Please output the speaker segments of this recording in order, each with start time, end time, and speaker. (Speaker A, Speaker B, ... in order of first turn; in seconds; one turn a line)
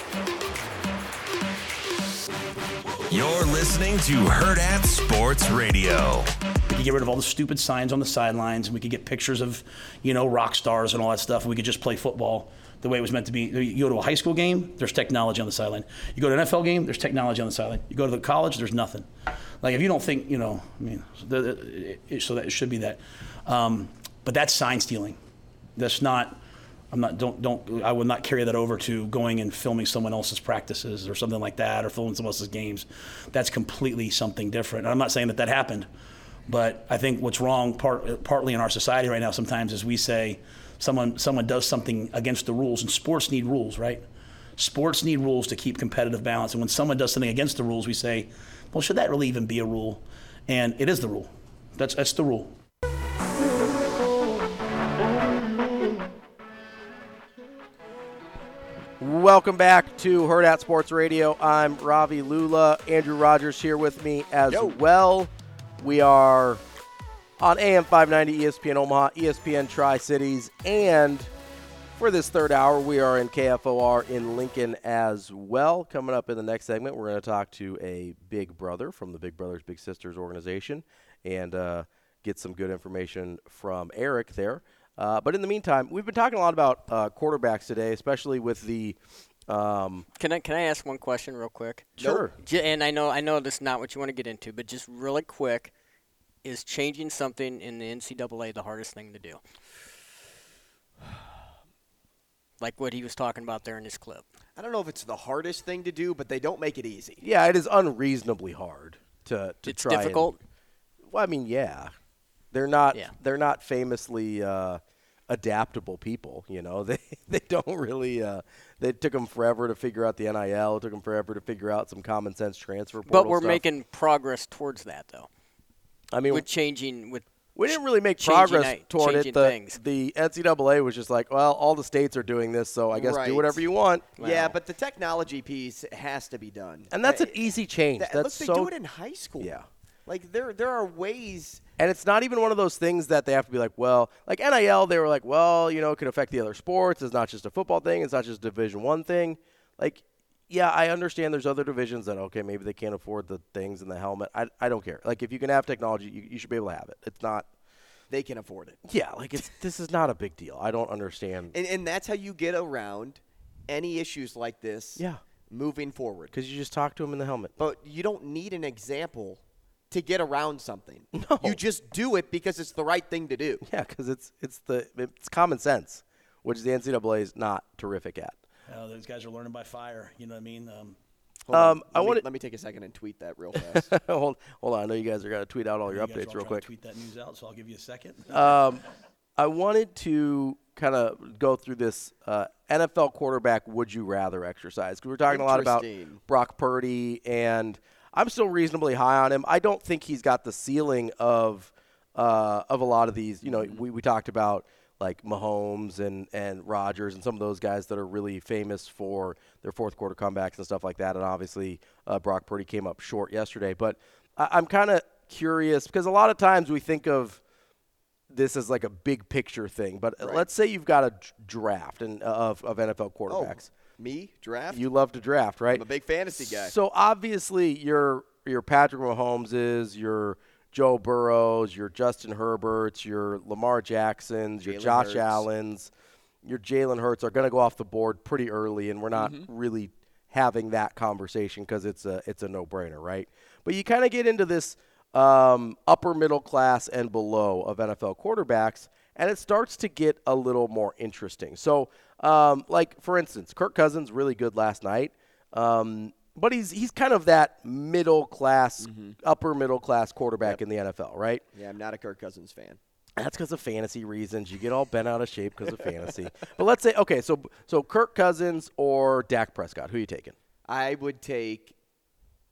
Speaker A: 3.1-6.3
Speaker B: 6.7-19.1
Speaker B: 19.6-25.2
Speaker B: 25.8-26.4
Speaker B: 26.9-35.9
Speaker B: 36.5-44.0
Speaker B: 44.6-52.5
Speaker C: 59.0-66.6
Speaker D: 64.5-64.8
Speaker C: 67.4-71.3
Speaker C: 72.0-89.0
Speaker C: 89.5-90.0
Speaker E: 90.2-91.8
Speaker C: 92.0-92.3
Speaker D: 92.0-92.2
Speaker E: 92.4-95.7
Speaker E: 96.4-99.4
Speaker E: 102.6-104.2
Speaker D: 104.5-107.2
Speaker C: 107.2-110.3
Speaker E: 109.7-110.3
Speaker C: 111.1-111.9
Speaker C: 112.5-123.6
Speaker E: 123.1-125.3
Speaker C: 126.1-126.5
Speaker E: 126.3-127.2
Speaker C: 127.5-134.1
Speaker E: 128.2-129.8
Speaker D: 132.9-133.6
Speaker E: 134.2-134.6
Speaker D: 134.2-137.3
Speaker C: 136.9-138.7
Speaker D: 138.0-141.6
Speaker C: 139.4-139.7
Speaker C: 141.8-157.5
Speaker D: 158.1-158.8
Speaker C: 158.8-161.5
Speaker D: 161.5-166.3
Speaker C: 166.3-167.6
Speaker D: 167.6-173.7
Speaker C: 171.1-171.6
Speaker C: 173.6-178.3
Speaker B: 178.7-181.0
Speaker D: 181.5-183.9
Speaker C: 181.5-182.2
Speaker C: 183.6-186.7
Speaker B: 185.9-188.5
Speaker C: 188.3-188.8
Speaker C: 189.4-217.4
Speaker D: 195.3-196.2
Speaker D: 203.5-203.8
Speaker C: 218.3-223.7
Speaker D: 220.2-220.5
Speaker D: 223.3-224.8
Speaker C: 224.7-225.8
Speaker D: 225.7-226.7
Speaker C: 226.4-235.9
Speaker D: 234.6-235.4
Speaker C: 236.4-261.4
Speaker D: 239.1-239.5
Speaker D: 258.8-259.2
Speaker D: 261.5-262.8
Speaker C: 263.1-270.3
Speaker D: 270.6-271.7